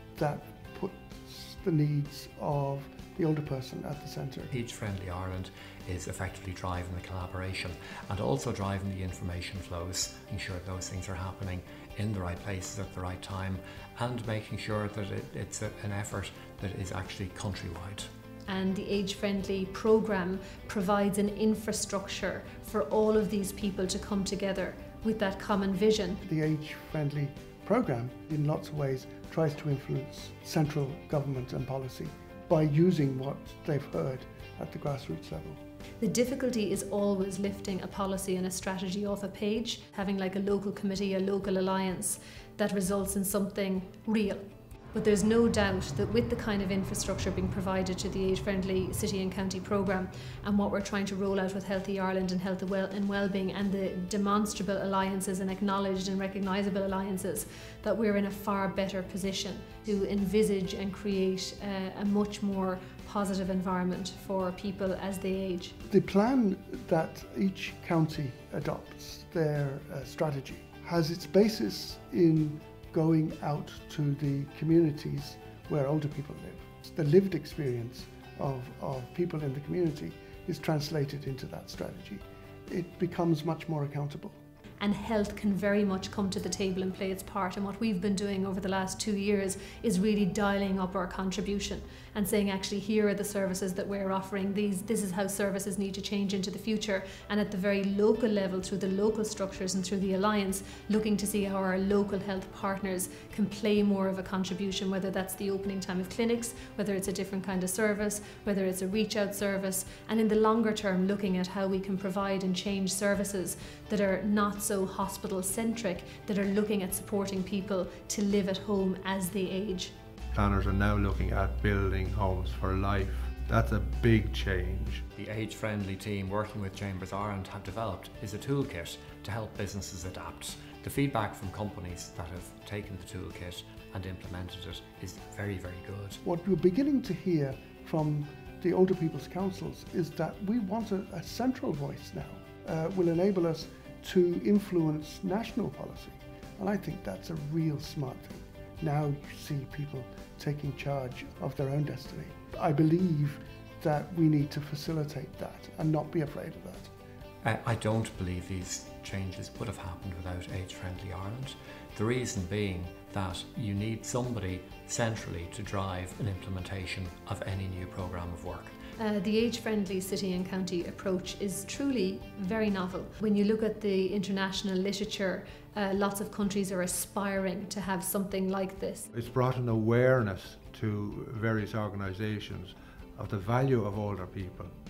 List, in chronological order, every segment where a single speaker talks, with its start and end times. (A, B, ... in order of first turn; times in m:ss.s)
0:00.2-0:04.5 A
0:04.5-0:18.1 B
0:18.5-0:26.2 C
0:26.3-0:35.6 A
0:36.0-1:05.8 C
1:05.9-1:24.4 A
1:24.8-1:59.9 C
2:00.3-2:05.1 D
2:05.2-2:16.2 B
2:16.2-2:36.9 A
2:37.4-2:48.8 B
2:49.0-2:59.1 C
2:59.1-3:04.7 D